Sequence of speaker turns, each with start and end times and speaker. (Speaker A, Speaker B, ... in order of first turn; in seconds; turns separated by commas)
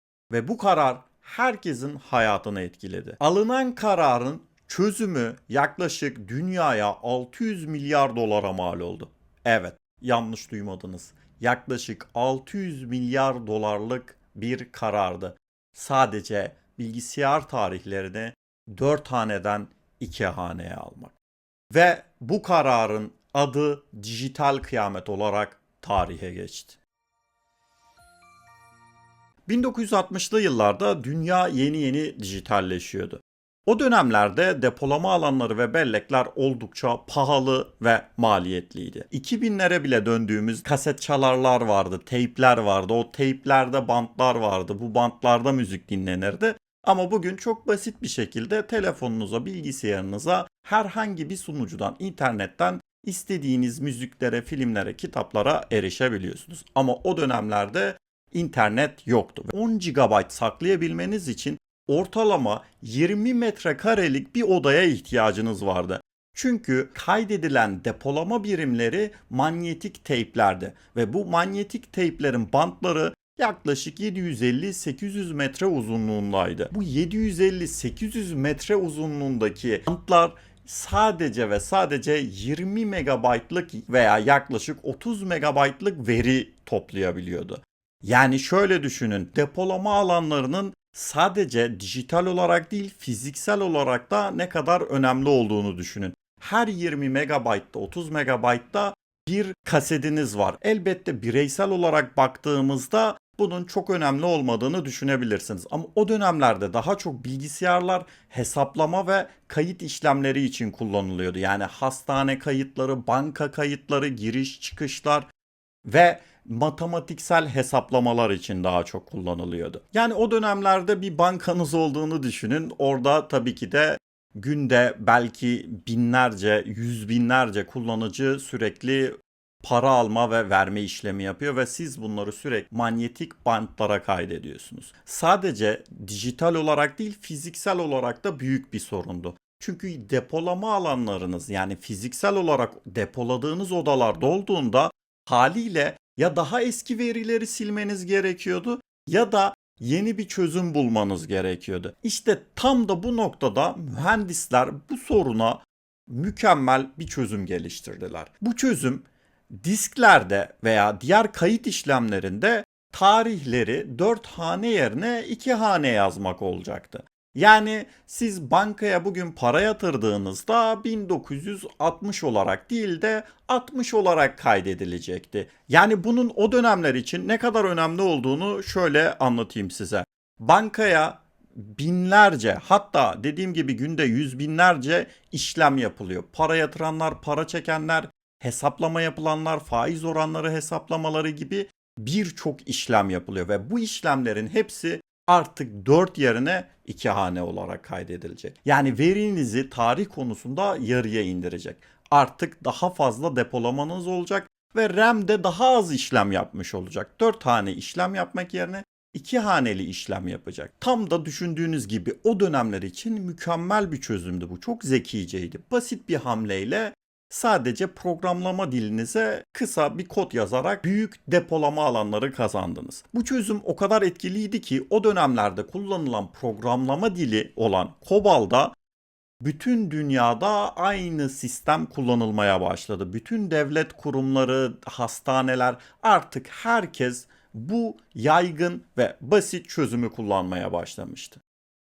Speaker A: 0.3-21.2, Speaker A: 21.7-26.8, Speaker A: 29.5-115.3, Speaker A: 115.8-228.8, Speaker A: 229.4-241.4